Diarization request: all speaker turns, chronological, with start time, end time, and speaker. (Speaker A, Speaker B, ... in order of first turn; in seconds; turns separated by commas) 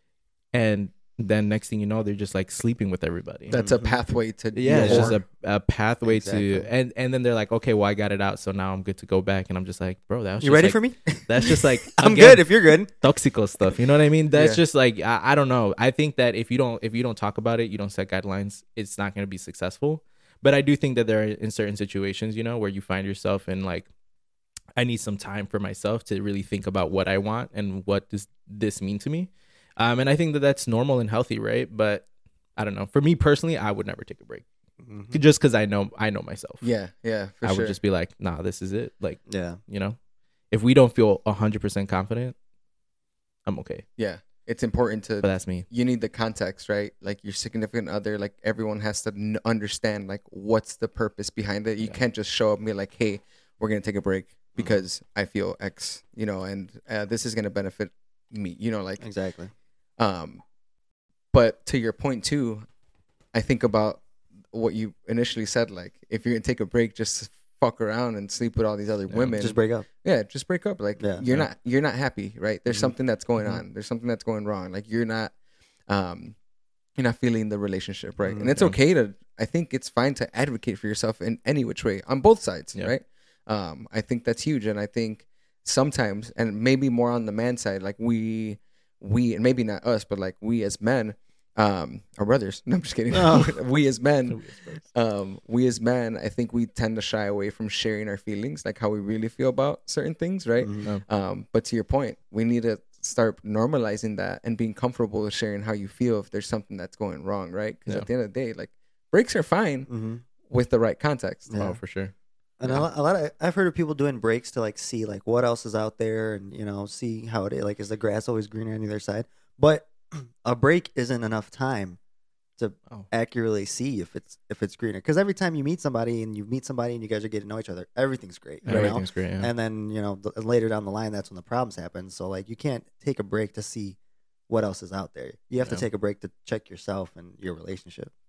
Speaker A: 0.5-3.6, Speaker B: 3.5-5.2, Speaker C: 3.5-4.0, Speaker A: 4.5-23.9, Speaker C: 4.7-5.2, Speaker C: 6.0-6.7, Speaker C: 10.4-12.9, Speaker B: 14.3-14.6, Speaker A: 24.8-34.5, Speaker C: 34.8-35.2, Speaker A: 35.1-36.7, Speaker B: 36.6-37.8, Speaker A: 37.4-40.0, Speaker C: 39.3-39.6, Speaker A: 40.5-42.4, Speaker A: 43.5-43.9, Speaker B: 44.0-59.0, Speaker A: 45.2-45.7, Speaker C: 59.0-59.5, Speaker B: 60.0-60.4, Speaker B: 61.3-62.7, Speaker B: 63.3-64.0, Speaker B: 64.5-75.3, Speaker A: 69.1-69.4, Speaker C: 69.4-69.9, Speaker C: 71.0-71.2, Speaker B: 75.9-76.4, Speaker B: 77.0-94.4, Speaker C: 78.2-78.5, Speaker C: 93.1-93.5, Speaker A: 94.3-94.8, Speaker B: 94.9-109.9, Speaker C: 100.6-100.9, Speaker C: 109.9-110.2, Speaker B: 110.5-111.5, Speaker C: 111.5-111.8, Speaker A: 111.5-112.9, Speaker C: 112.6-122.0, Speaker C: 122.6-134.0, Speaker A: 128.7-129.5, Speaker B: 128.7-129.0, Speaker C: 134.5-138.1